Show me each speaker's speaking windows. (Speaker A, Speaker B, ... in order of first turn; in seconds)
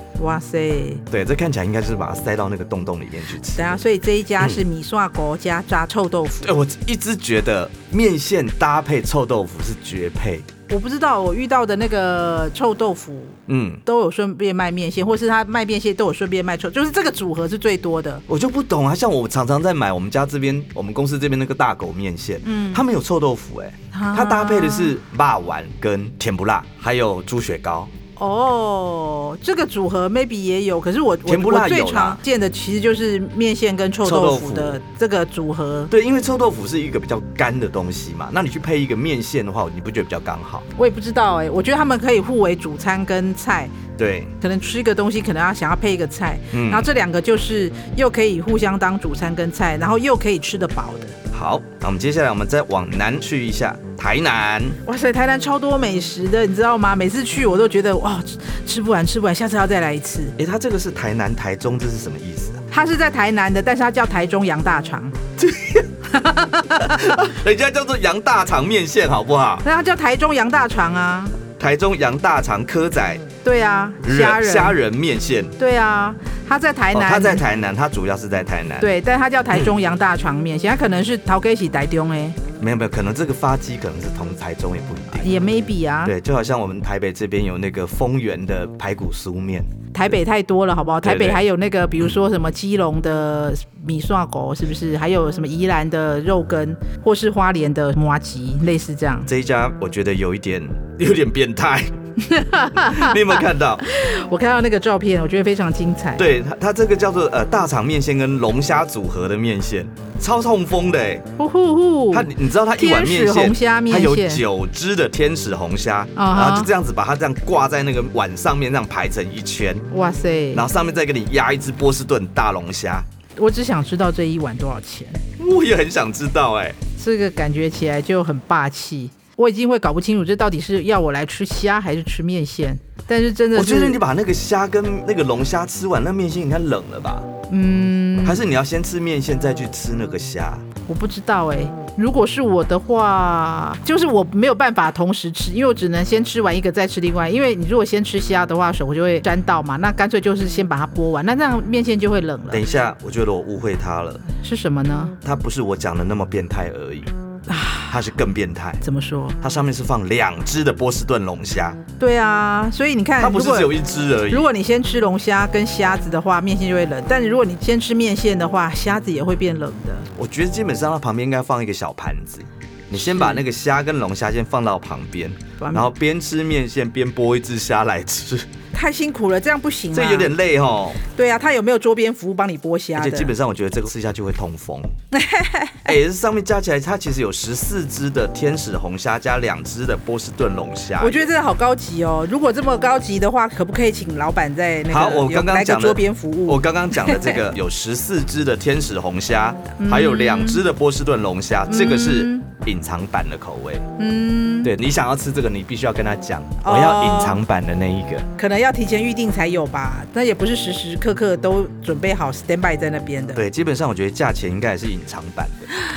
Speaker A: 0.2-1.0, 3.6-6.5, 10.7-18.2, 22.4-22.8, 23.9-24.9, 28.2-35.9, 40.8-43.8, 44.4-51.1, 54.9-60.4, 62.7-65.2, 66.1-67.1, 69.6-71.4, 73.4-74.8, 75.6-77.4, 78.8-82.4, 85.1-86.1, 89.9-99.3, 102.2-106.2, 111.4-114.4, 116.2-116.7, 119.9-120.7, 123.4-125.2, 127.0-134.0, 137.5-138.4, 140.9-152.7, 154.3-155.1, 157.5-158.0, 158.8-159.4, 162.0-163.7, 164.3-170.1, 172.9-173.4, 175.6-175.9, 178.7-180.3, 181.1-183.3, 185.1-185.9, 191.0-197.4, 199.8-200.6, 201.7-202.5, 204.0-204.7, 206.6-207.4, 208.4-213.4
Speaker B: 1.1-3.8, 6.4-10.5, 13.5-13.8, 18.3-27.9, 31.3-32.2, 34.0-34.8, 35.9-40.7, 44.0-44.3, 46.5-46.9, 51.3-54.8, 60.4-62.6, 65.4-66.1, 66.7-69.6, 71.6-73.2, 74.0-75.5, 76.9-78.9, 82.6-85.4, 86.0-89.7, 91.0-91.5, 99.3-101.9, 102.8-103.8, 106.2-111.3, 112.1-119.8, 120.5-123.1, 125.4-126.8, 133.6-137.3, 138.2-140.7, 152.5-154.2, 155.2-157.1, 157.9-158.8, 159.4-161.8, 163.2-164.5, 170.2-178.5, 179.9-181.0, 182.9-184.9, 185.8-191.3, 194.9-203.8, 204.6-208.3, 213.3-215.7